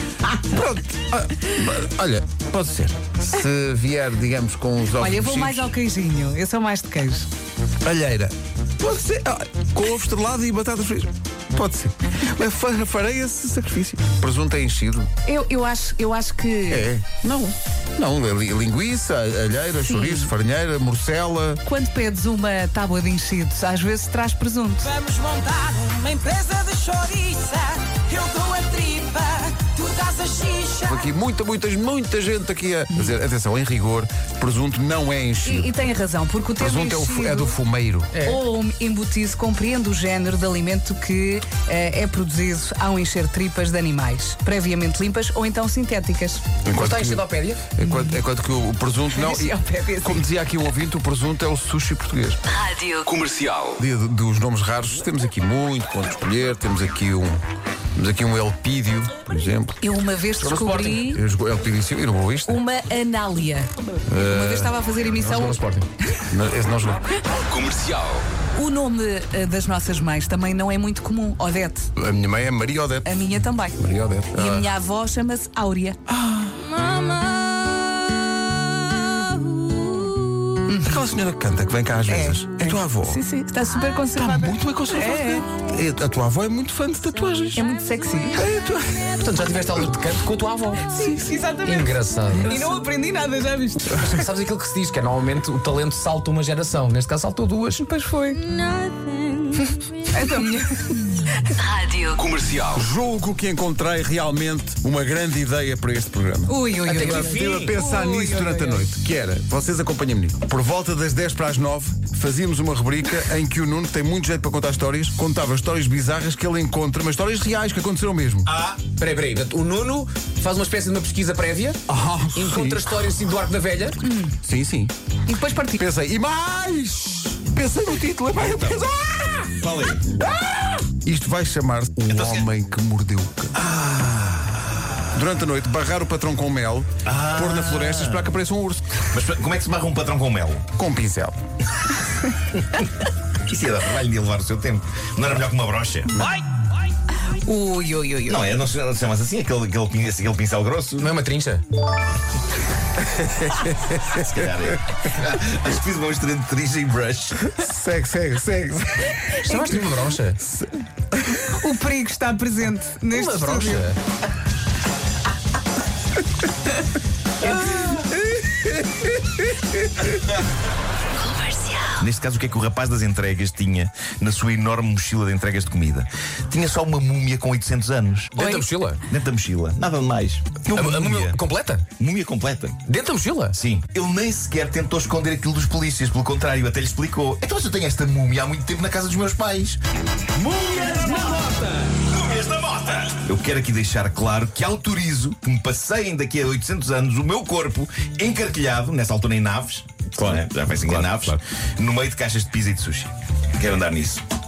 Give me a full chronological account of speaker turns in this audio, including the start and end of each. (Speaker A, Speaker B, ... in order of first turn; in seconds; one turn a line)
Speaker A: 0.2-5.7
Speaker B: 5.0-7.3
Speaker A: 7.8-15.1
Speaker B: 15.2-16.9
Speaker A: 16.7-21.6
Speaker B: 19.9-20.3
Speaker B: 21.6-25.0
Speaker C: 25.0-30.8
Speaker A: 30.8-35.7
Speaker B: 35.5-37.6
Speaker A: 36.6-38.1
Speaker D: 38.1-38.4
Speaker B: 38.2-46.4
Speaker A: 46.6-47.2
Speaker D: 46.7-47.7
Speaker A: 47.8-52.6
Speaker B: 47.8-48.2
Speaker B: 49.1-50.2
Speaker E: 52.6-53.8
Speaker A: 53.8-57.4
Speaker A: 58.0-59.8
Speaker B: 59.8-61.2
Speaker D: 60.4-61.0
Speaker A: 61.0-62.6
Speaker B: 62.5-65.6
Speaker A: 64.1-64.7
Speaker D: 65.2-65.9
Speaker A: 66.3-67.1
Speaker E: 67.5-68.2
Speaker B: 68.5-71.9
Speaker A: 72.0-73.1
Speaker B: 73.0-76.0
Speaker A: 73.8-74.7
Speaker A: 76.1-76.8
Speaker B: 80.7-81.0
Speaker A: 80.7-83.2
Speaker B: 82.1-85.5
Speaker A: 84.2-87.7
Speaker B: 87.5-88.5
Speaker A: 88.3-89.1
Speaker D: 89.2-90.9
Speaker B: 90.9-94.1
Speaker D: 91.6-92.7
Speaker D: 93.9-97.8
Speaker B: 97.8-98.4
Speaker B: 100.1-102.2
Speaker E: 102.2-102.8
Speaker A: 102.7-118.5
Speaker B: 106.5-108.9
Speaker D: 106.8-107.8
Speaker F: 118.5-118.8
Speaker D: 119.0-124.0
Speaker A: 121.9-122.8
Speaker B: 124.0-124.4
Speaker A: 124.4-124.9
Speaker B: 125.3-125.8
Speaker A: 125.8-129.7
Speaker F: 128.4-128.9
Speaker F: 129.6-130.2
Speaker A: 130.2-133.6
Speaker F: 132.1-132.5
Speaker F: 133.5-134.9
Speaker A: 135.1-139.1
Speaker F: 137.1-138.4
Speaker F: 139.1-140.7
Speaker A: 140.8-141.4
Speaker F: 143.4-146.1
Speaker B: 147.3-148.4
Speaker F: 148.3-151.1
Speaker D: 151.0-151.7
Speaker A: 153.1-154.4
Speaker F: 154.1-157.5
Speaker A: 157.5-159.7
Speaker D: 159.4-160.4
Speaker B: 161.5-163.9
Speaker D: 163.1-164.0
Speaker F: 171.9-178.4
Speaker D: 178.3-179.0
Speaker B: 178.4-178.7
Speaker F: 179.1-181.4
Speaker D: 180.7-181.9
Speaker F: 182.0-182.8
Speaker D: 182.9-183.6
Speaker F: 183.5-189.8
Speaker D: 190.3-192.0
Speaker F: 192.0-204.2
Speaker D: 200.2-201.4